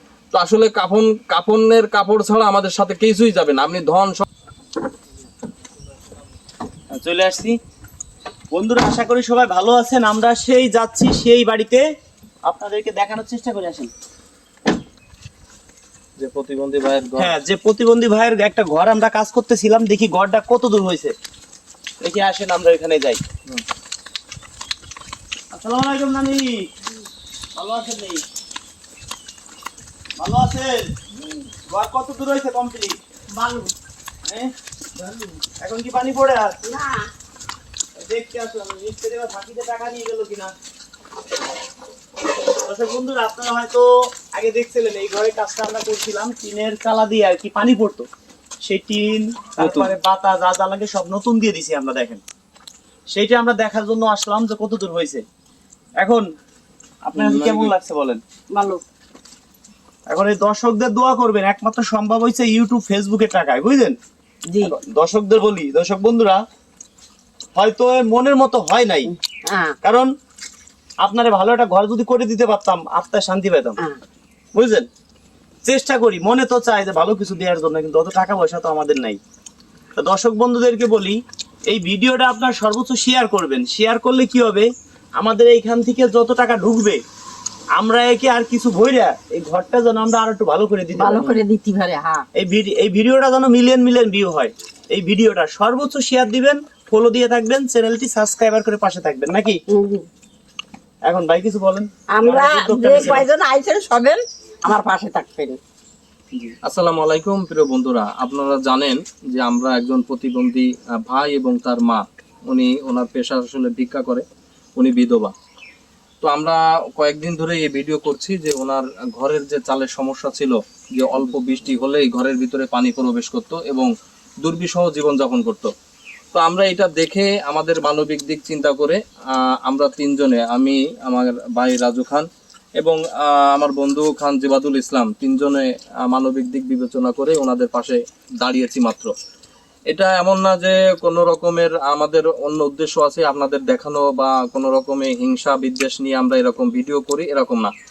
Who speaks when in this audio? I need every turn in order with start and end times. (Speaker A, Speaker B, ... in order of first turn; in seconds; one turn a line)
Speaker A: 0.3-4.2
Speaker B: 6.9-7.6
Speaker B: 8.5-11.8
Speaker B: 12.5-13.9
Speaker A: 16.2-17.3
Speaker B: 17.2-21.1
Speaker B: 22.0-23.2
Speaker B: 25.5-26.6
Speaker B: 27.6-28.2
Speaker B: 30.2-30.9
Speaker B: 31.7-33.0
Speaker B: 34.2-36.6
Speaker C: 36.6-37.1
Speaker B: 38.0-40.5
Speaker B: 42.6-48.1
Speaker B: 48.6-52.2
Speaker A: 49.6-49.9
Speaker B: 53.1-55.2
Speaker B: 56.0-56.2
Speaker B: 57.0-58.2
Speaker A: 57.1-57.7
Speaker C: 58.5-58.8
Speaker B: 60.1-64.0
Speaker B: 64.6-66.4
Speaker B: 67.5-69.1
Speaker C: 69.0-69.7
Speaker B: 69.8-70.1
Speaker B: 71.0-73.8
Speaker B: 74.5-74.8
Speaker B: 75.6-79.2
Speaker B: 80.0-87.0
Speaker B: 87.8-91.3
Speaker C: 91.0-92.2
Speaker B: 92.3-99.6
Speaker C: 99.7-100.0
Speaker B: 101.0-103.3
Speaker C: 102.1-105.6
Speaker A: 106.6-114.2
Speaker A: 114.8-115.3
Speaker A: 116.2-123.9
Speaker A: 124.4-125.7
Speaker A: 126.3-132.3
Speaker A: 132.8-139.1
Speaker A: 139.9-147.7